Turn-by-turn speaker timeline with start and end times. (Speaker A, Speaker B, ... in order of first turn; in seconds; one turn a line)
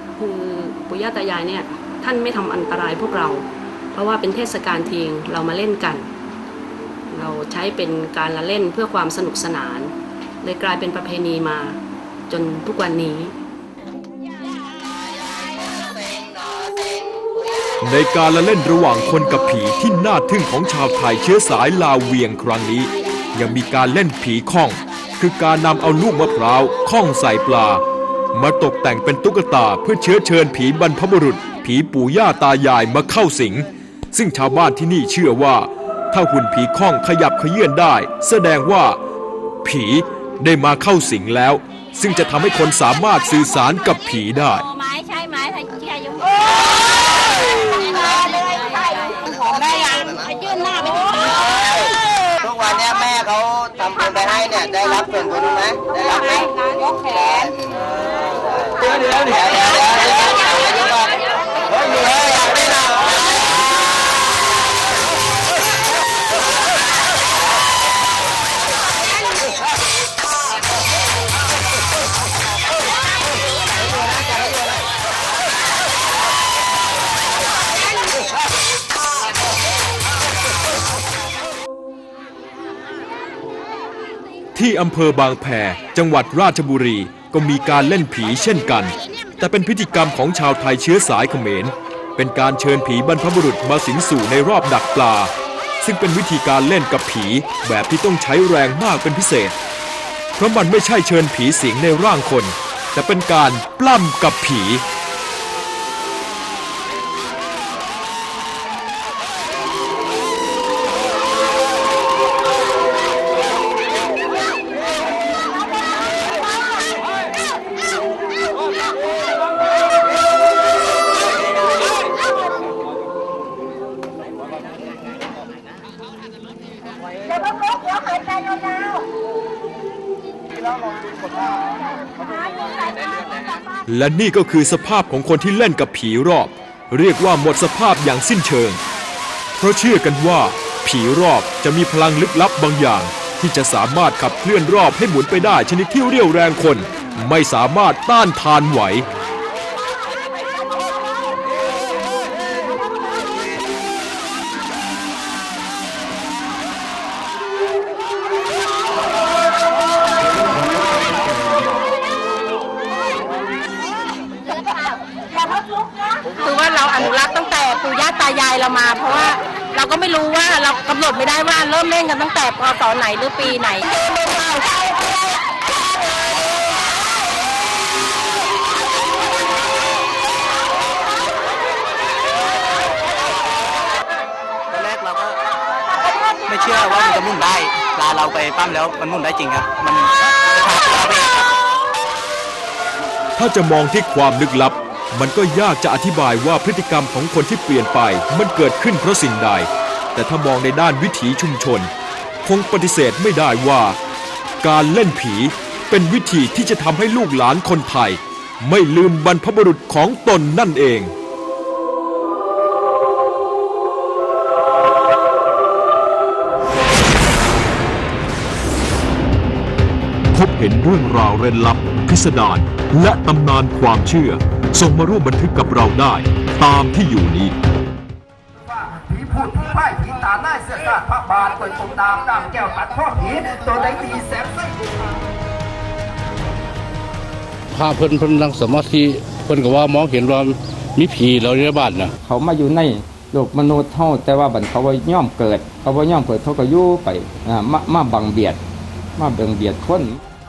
Speaker A: 0.2-6.1
Speaker A: 7.1-11.8
Speaker A: 12.3-13.3
Speaker B: 17.8-27.8
Speaker B: 28.3-39.0
Speaker B: 39.6-44.7
Speaker C: 44.7-46.4
Speaker C: 48.5-51.3
Speaker C: 56.0-56.5
Speaker B: 84.5-99.5
Speaker B: 100.4-104.8
Speaker B: 133.9-138.8
Speaker B: 139.6-149.1
Speaker C: 166.3-174.6
Speaker D: 184.7-185.4
Speaker D: 186.5-191.3
Speaker B: 193.4-201.9
Speaker B: 202.4-204.0
Speaker B: 204.6-211.1
Speaker B: 220.3-227.5
Speaker E: 229.1-234.7
Speaker F: 237.7-242.1
Speaker G: 242.2-248.6
Speaker G: 249.2-250.1